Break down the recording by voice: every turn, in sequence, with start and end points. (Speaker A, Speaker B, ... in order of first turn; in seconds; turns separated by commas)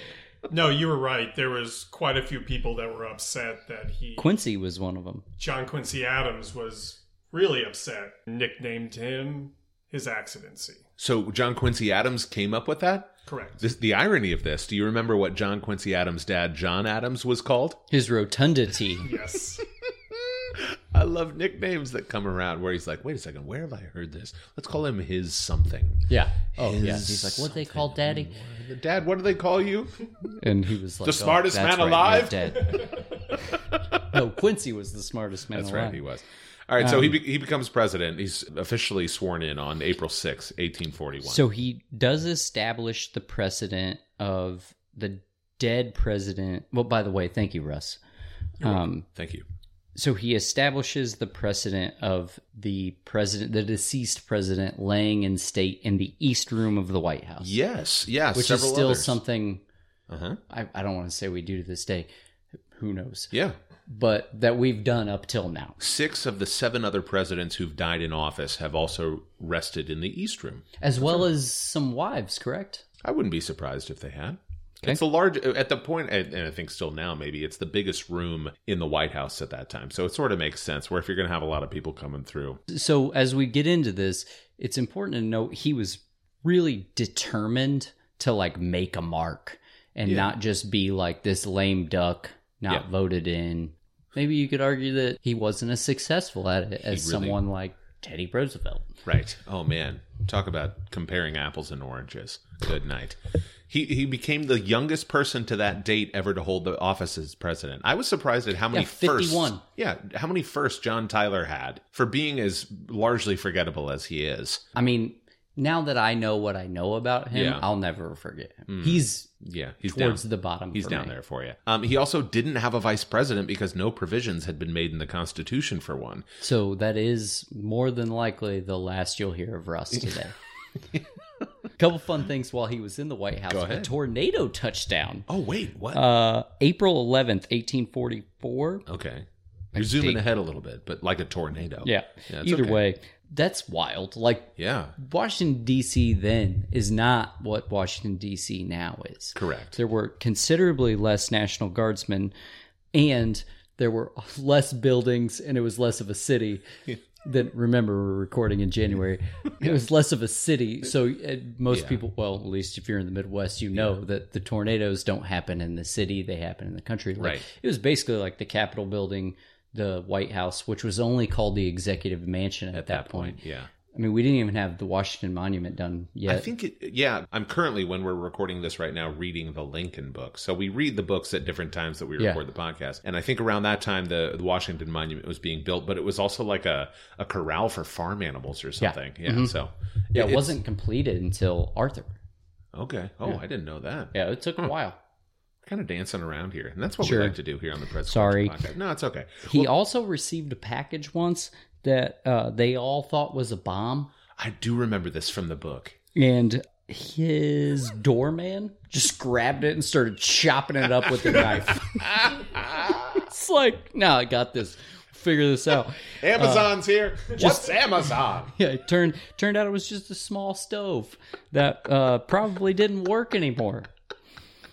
Speaker A: 0.5-4.3, Speaker B: 4.2-5.2, Speaker A: 5.4-10.8, Speaker C: 11.0-17.8, Speaker A: 13.3-13.6, Speaker B: 17.9-19.1, Speaker A: 19.0-19.6, Speaker C: 20.1-30.0, Speaker B: 26.1-28.3, Speaker B: 30.3-33.0, Speaker C: 31.0-34.0, Speaker B: 34.1-36.0, Speaker C: 35.5-41.4, Speaker B: 36.8-37.1, Speaker B: 41.2-48.0, Speaker B: 48.6-49.1, Speaker C: 48.6-49.5, Speaker B: 49.9-57.5, Speaker C: 57.4-59.2, Speaker B: 58.3-59.6, Speaker C: 60.1-60.4, Speaker B: 60.5-62.1, Speaker B: 62.7-63.3, Speaker B: 63.9-65.8, Speaker C: 65.8-70.7, Speaker B: 70.8-72.8, Speaker C: 73.0-82.6, Speaker B: 82.7-98.9, Speaker C: 96.9-97.4, Speaker C: 99.0-114.6, Speaker B: 108.7-109.6, Speaker B: 114.7-119.3, Speaker C: 117.3-117.6, Speaker C: 118.7-120.2, Speaker B: 119.9-121.1, Speaker C: 120.7-126.2, Speaker B: 126.4-130.3, Speaker B: 131.8-135.3, Speaker C: 133.5-133.9, Speaker C: 135.3-136.0, Speaker B: 135.9-138.8, Speaker C: 138.9-142.8, Speaker B: 139.7-140.2, Speaker B: 141.8-152.3, Speaker C: 144.6-144.9, Speaker C: 149.3-149.8, Speaker B: 152.9-173.4, Speaker C: 161.7-162.0, Speaker C: 167.2-167.4, Speaker C: 172.7-173.7, Speaker B: 173.9-176.5, Speaker C: 176.3-190.6, Speaker B: 188.8-189.5, Speaker B: 190.1-192.1, Speaker C: 192.7-194.7, Speaker B: 194.1-195.0, Speaker C: 195.6-199.7, Speaker B: 197.0-197.3, Speaker B: 198.1-198.6, Speaker B: 199.5-204.1, Speaker C: 204.3-206.0, Speaker B: 206.1-212.3, Speaker C: 211.2-213.2, Speaker B: 213.2-216.7, Speaker C: 216.2-218.5, Speaker B: 217.3-217.7, Speaker B: 218.5-223.9